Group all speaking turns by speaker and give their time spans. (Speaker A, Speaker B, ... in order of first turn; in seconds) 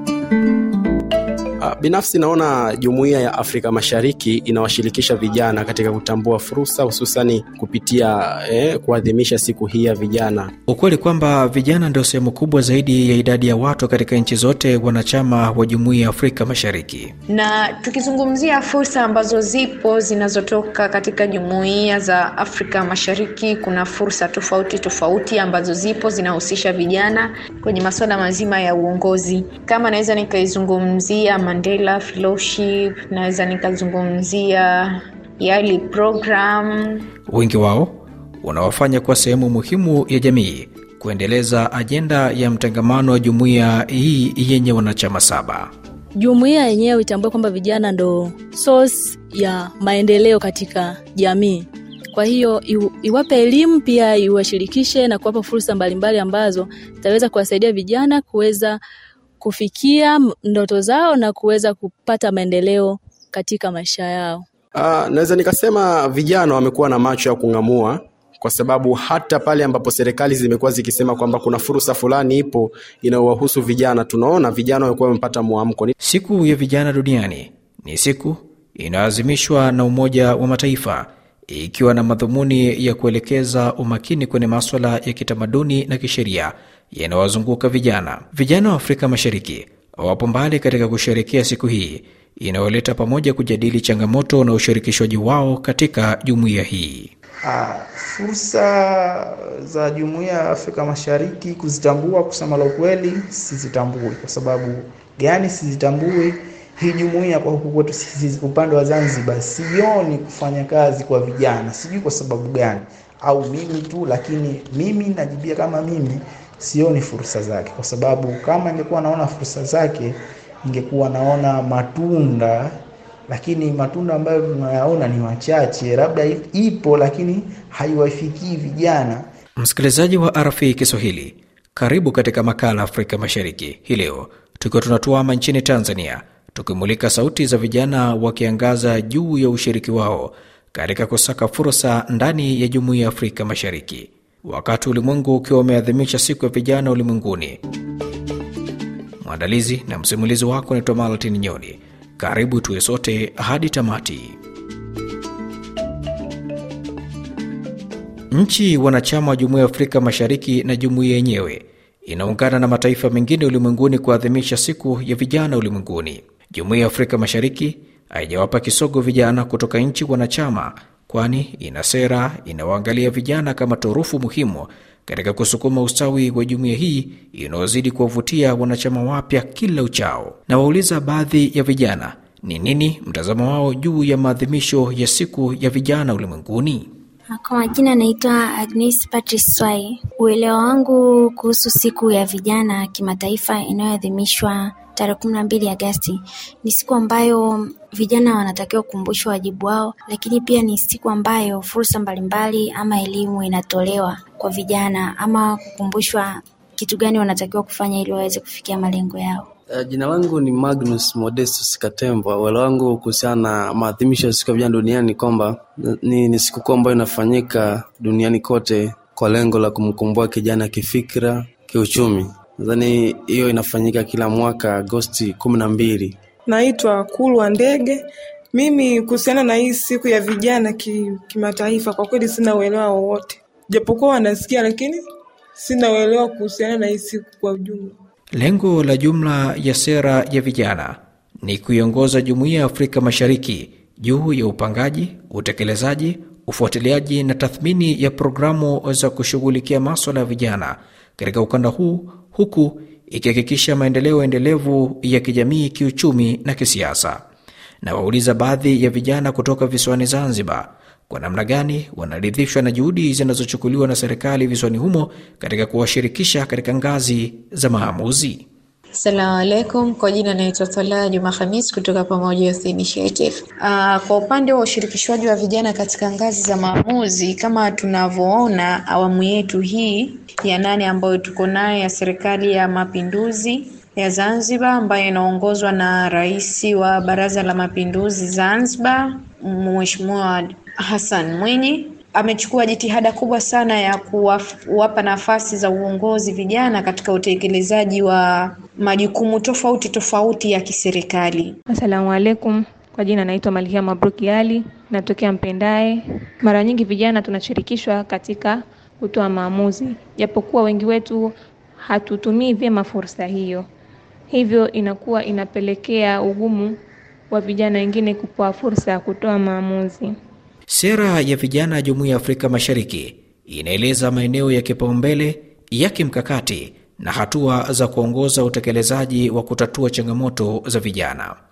Speaker A: 1.6-10.5, 64.8-75.9
Speaker B: 10.7-17.1, 37.3-45.7, 76.0-97.1, 129.6-147.6, 149.2-154.4, 158.3-186.9, 238.3-257.2, 257.8-268.4, 320.7-331.4
Speaker C: 17.3-37.1, 268.9-301.6
Speaker D: 46.2-58.8, 59.4-64.4
Speaker E: 97.4-122.7, 123.3-129.2
Speaker F: 187.3-206.3, 206.8-209.4
Speaker G: 209.7-226.2
Speaker H: 226.5-235.1, 235.6-238.0
Speaker I: 301.7-313.7, 314.3-316.8, 317.3-320.1